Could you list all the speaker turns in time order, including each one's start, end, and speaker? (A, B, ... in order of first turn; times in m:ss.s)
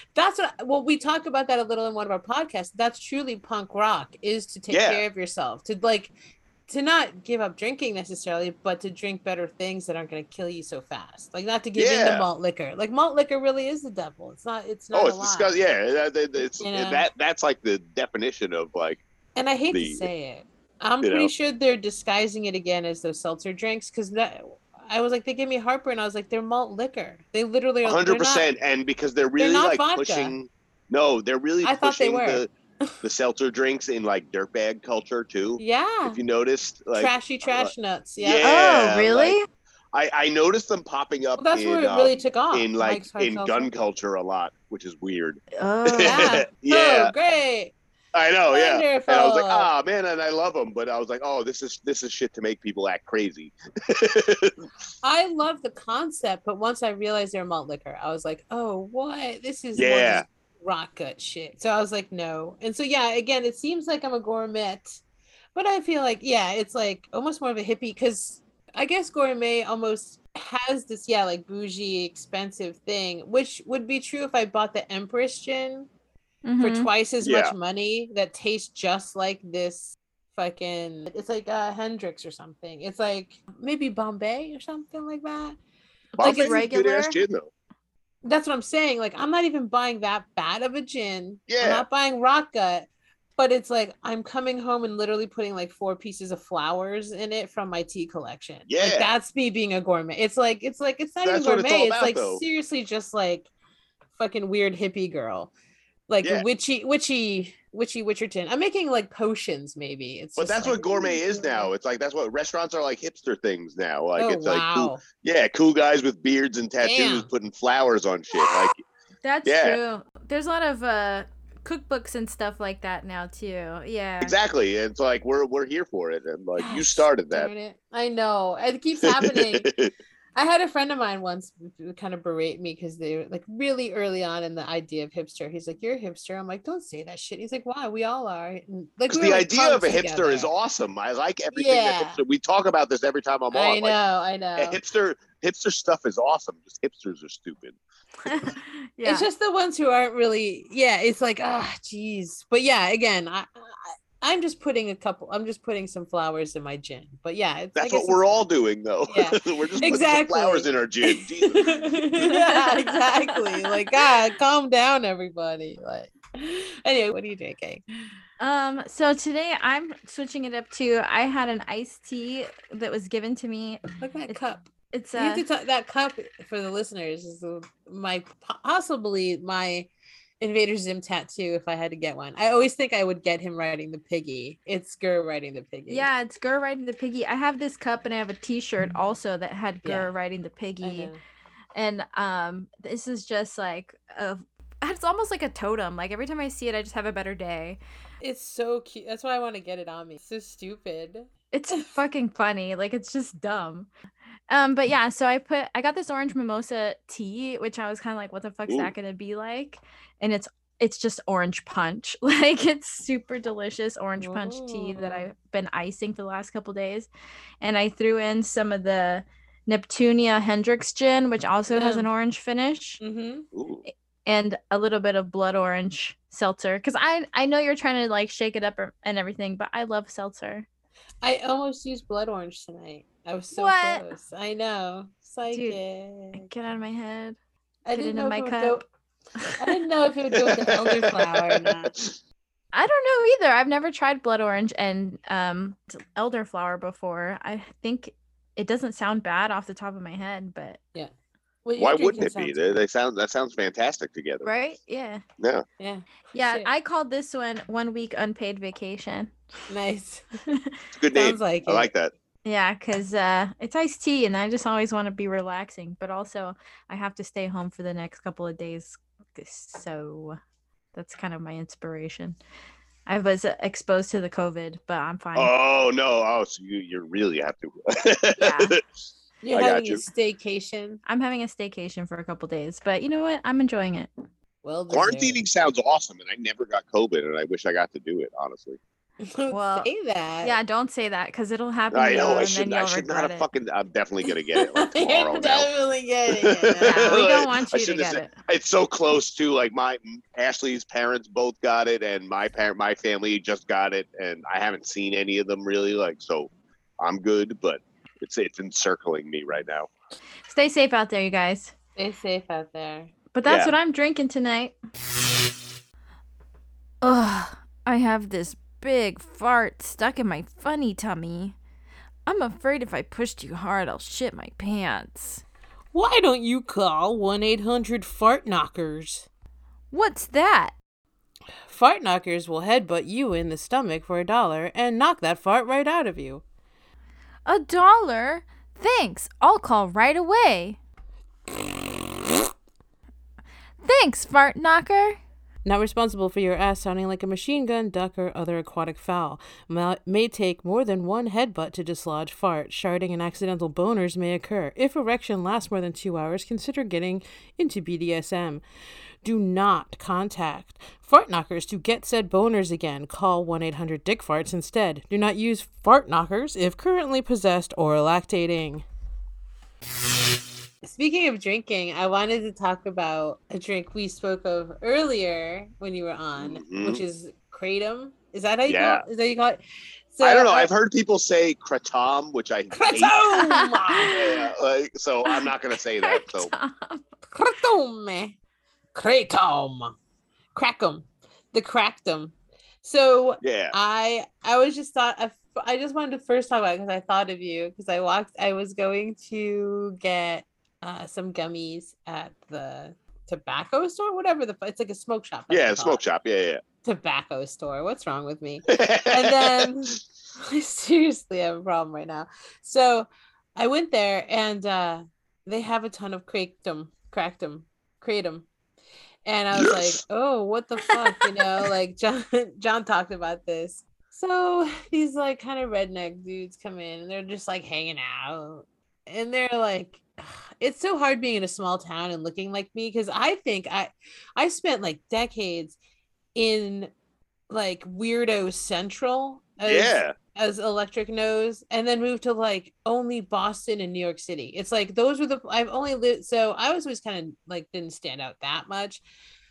0:00.2-0:06.1 A
0:04.7-0:05.0 B
0:06.7-0:15.5 A
0:11.8-0:12.2 B
0:14.9-0:19.0 B
0:16.6-0:17.1 A
0:19.4-0:28.5 A
0:19.7-0:20.0 B
0:21.0-0:21.3 B
0:27.8-0:32.5 B
0:29.4-0:30.3 A
0:31.6-0:32.9 A
0:33.0-0:39.3 B
0:35.6-0:36.2 A
0:36.9-0:38.5 A
0:38.4-0:39.4 C
0:39.9-0:47.1 B
0:41.4-0:43.7 A
0:45.6-0:46.3 C
0:46.0-0:47.8 A
0:48.1-0:54.6 B
0:48.5-0:49.7 A
0:55.0-1:05.0 A
0:59.8-1:00.2 B
1:05.6-1:15.9 A
1:16.4-1:16.9 C
1:16.6-1:25.6 A
1:17.2-1:17.5 B
1:26.2-1:27.2 C
1:26.2-1:27.5 B
1:26.2-1:26.6 A
1:28.2-1:43.5 A
1:31.5-1:31.8 B
1:38.7-1:39.1 B
1:41.2-1:42.4 B
1:44.1-1:45.5 A
1:46.1-1:51.7 A
1:50.4-1:58.8 B
1:54.2-1:55.0 A
1:56.8-1:57.3 A
1:59.2-2:04.3 C
1:59.4-1:59.8 B
2:04.2-2:07.5 B
2:06.6-2:09.7 A
2:09.0-2:09.9 B
2:10.4-2:20.5 A
2:19.1-2:24.0 B
2:21.5-2:22.2 A
2:23.5-2:24.8 A
2:24.6-2:27.8 B
2:28.2-2:29.3 C
2:29.0-2:38.3 A
2:37.8-2:41.8 B
2:39.1-2:47.8 A
2:42.2-2:43.8 C
2:48.4-2:55.4 C
2:54.0-3:06.1 A
3:05.9-3:11.1 C
3:09.8-3:10.1 A
3:10.8-3:11.2 A
3:11.8-3:17.8 C
3:18.2-3:21.3 A
3:21.5-3:23.9 C
3:24.5-3:37.1 C
3:34.2-3:35.3 A
3:37.6-3:43.0 C
3:41.7-3:42.1 A
3:43.0-3:43.5 A
3:43.5-3:43.8 B
3:44.3-3:50.7 C
3:51.2-3:56.4 A
3:53.6-3:54.0 C
3:55.5-3:55.8 C
3:56.3-3:57.4 C
3:57.8-3:58.8 A
3:57.9-3:58.8 C
3:59.6-4:01.9 A
4:00.4-4:02.2 B
4:02.7-4:10.8 C
4:11.6-4:12.7 A
4:11.8-4:14.5 B
4:14.4-4:15.2 C
4:15.8-4:16.7 A
4:16.3-4:19.3 C
4:19.7-4:20.2 A
4:20.9-4:22.1 B
4:21.1-4:21.9 A
4:22.4-4:30.4 C
4:30.9-4:32.4 C
4:33.1-4:35.5 C
4:35.4-4:38.8 B
4:38.4-4:38.8 C
4:39.4-4:41.0 A
4:39.5-4:40.0 B
4:41.1-4:44.1 C
4:44.6-4:45.4 A
4:44.9-4:48.8 B
4:49.2-4:50.6 A
4:49.5-4:49.9 C
4:50.4-4:53.5 C
4:51.9-4:55.7 B
4:54.6-4:57.2 A
4:56.4-5:09.9 B
4:56.8-4:58.3 C
5:10.5-5:11.7 C
5:12.0-5:13.1 A
5:13.3-5:14.8 C
5:13.4-5:13.7 B
5:17.0-5:21.6 C
5:22.3-5:25.4 C
5:25.9-5:29.3 A
5:29.9-5:30.8 C
5:31.7-5:36.4 A
5:37.4-5:40.8 C
5:43.8-5:45.2 C
5:45.6-5:58.6 A
5:59.2-6:08.8 A
6:10.8-6:19.6 A
6:16.4-6:17.0 B
6:18.7-6:19.1 B
6:20.1-6:20.7 A
6:20.2-6:23.2 B
6:22.7-6:24.1 A
6:23.3-6:24.5 C
6:24.1-6:26.5 B
6:25.2-6:27.0 C
6:27.3-6:28.4 A
6:28.9-6:29.9 A
6:30.5-6:46.0 A
6:33.4-6:33.8 B
6:45.5-6:46.6 B
6:46.8-6:58.5 A
6:48.7-6:49.8 B
6:59.3-7:15.8 A
6:59.5-7:00.0 B
7:16.3-7:16.9 A
7:17.5-7:29.0 A
7:19.6-7:20.2 B